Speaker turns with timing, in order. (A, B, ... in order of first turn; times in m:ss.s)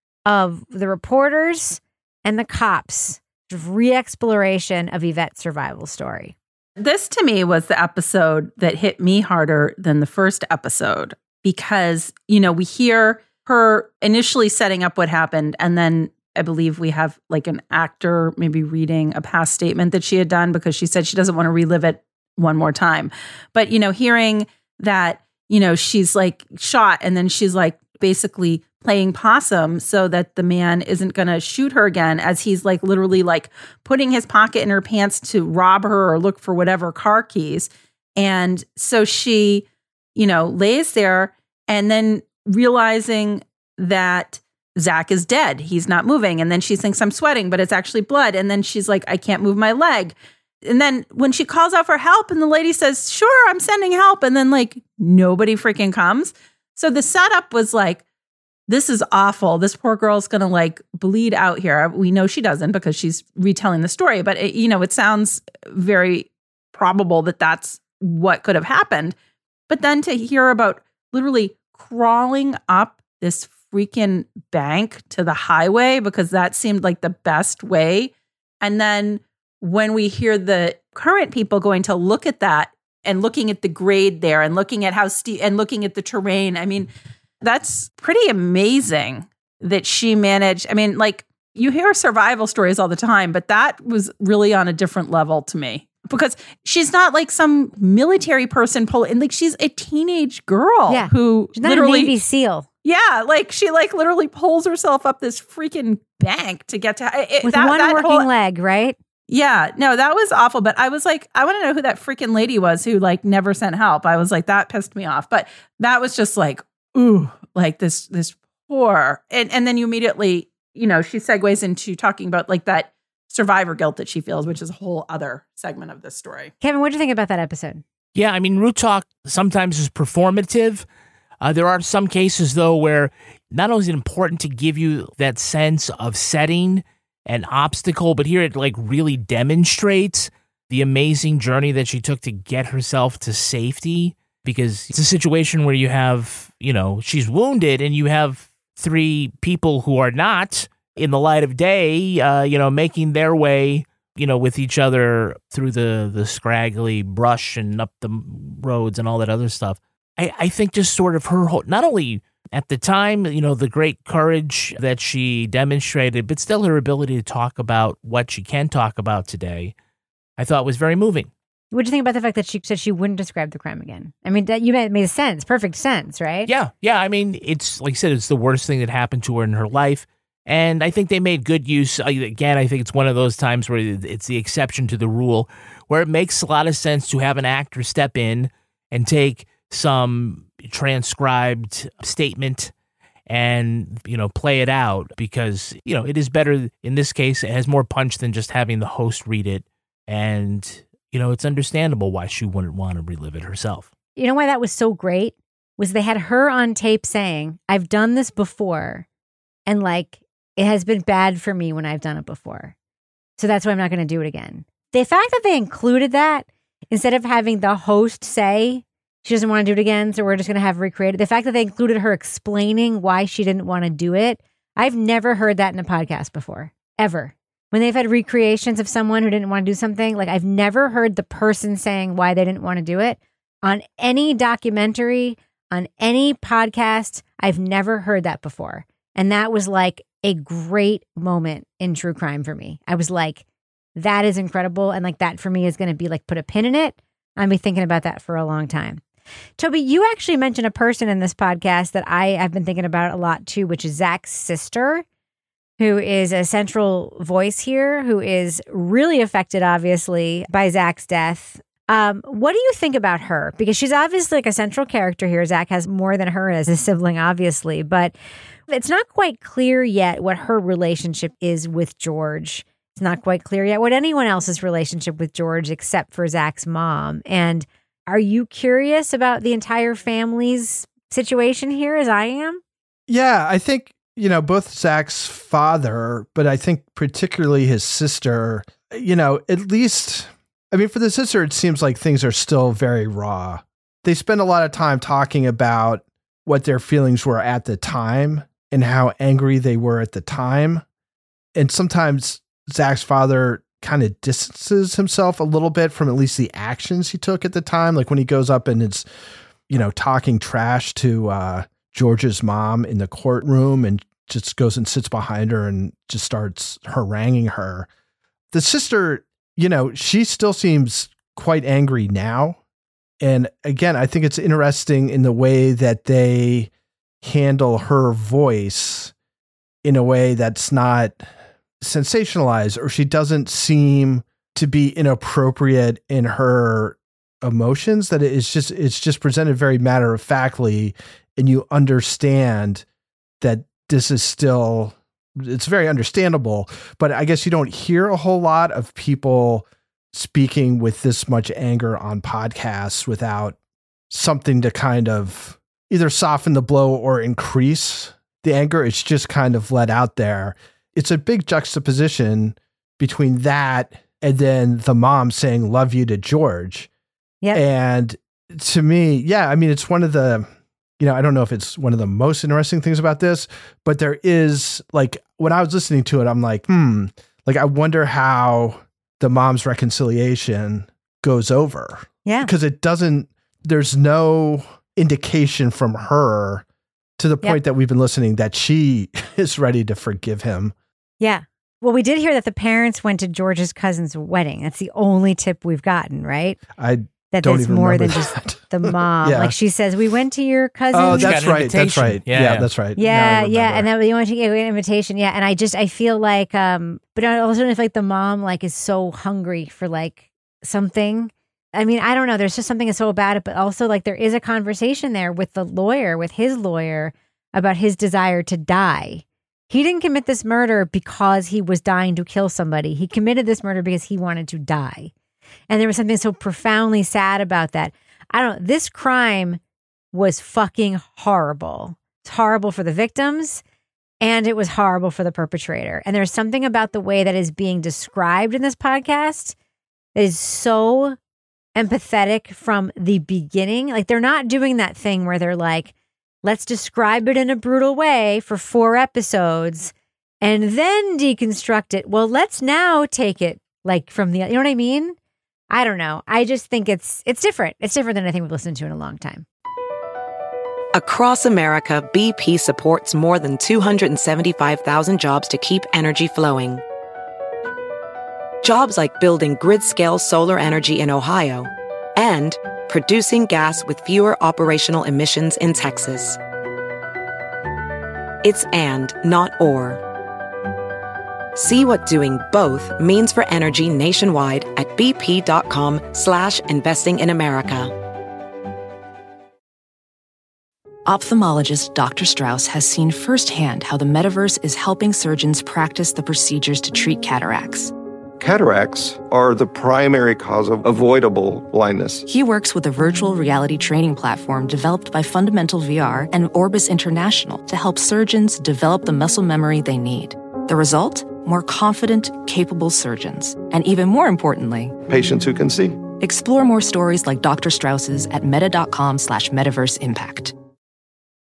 0:00.3-0:06.4 A
0:06.8-0:58.0 B
0:58.7-1:09.2 B
1:09.7-1:26.9 B
1:27.4-1:42.1 B
1:40.9-1:42.7 A
1:42.8-1:48.3 B
1:47.4-1:49.0 A
1:49.3-2:06.5 B
2:06.6-2:07.8 A
2:08.2-2:10.9 C
2:11.4-2:49.7 C
2:50.4-2:51.3 C
2:51.7-2:56.5 A
2:56.5-3:12.7 C
3:13.3-3:23.9 C
3:24.2-3:29.1 A
3:29.7-3:32.7 A
3:33.4-4:03.4 A
4:04.0-4:09.0 A
4:09.6-4:15.0 A
4:15.8-4:28.2 A
4:28.7-4:42.6 A
4:43.1-5:00.8 D
5:01.6-5:09.1 D
5:09.7-5:17.9 D
5:18.5-5:22.6 D
5:23.2-5:26.7 D
5:27.2-5:29.1 D
5:29.8-5:31.3 D
5:31.8-5:42.8 D
5:43.4-5:53.6 D
5:54.1-6:06.9 D
6:07.5-6:10.5 D
6:11.0-6:26.6 D
6:22.2-6:22.5 A
6:27.2-6:30.7 D
6:31.2-6:36.6 A
6:36.8-6:39.5 D
6:37.3-6:41.4 A
6:40.9-6:43.9 D
6:41.1-6:42.7 C
6:43.0-7:05.1 A
7:05.7-7:09.6 A
7:10.1-7:13.6 A
7:14.2-7:19.6 A
7:20.2-7:21.2 A
7:21.8-7:35.2 A
7:35.7-7:39.4 A
7:41.0-7:46.8 E
7:48.6-7:56.4 E
7:58.4-8:00.0 E
8:01.6-8:07.9 E
8:11.1-8:17.9 F
8:18.4-8:22.2 G
8:22.3-8:35.0 F
8:35.1-8:36.0 G
8:36.2-8:40.5 F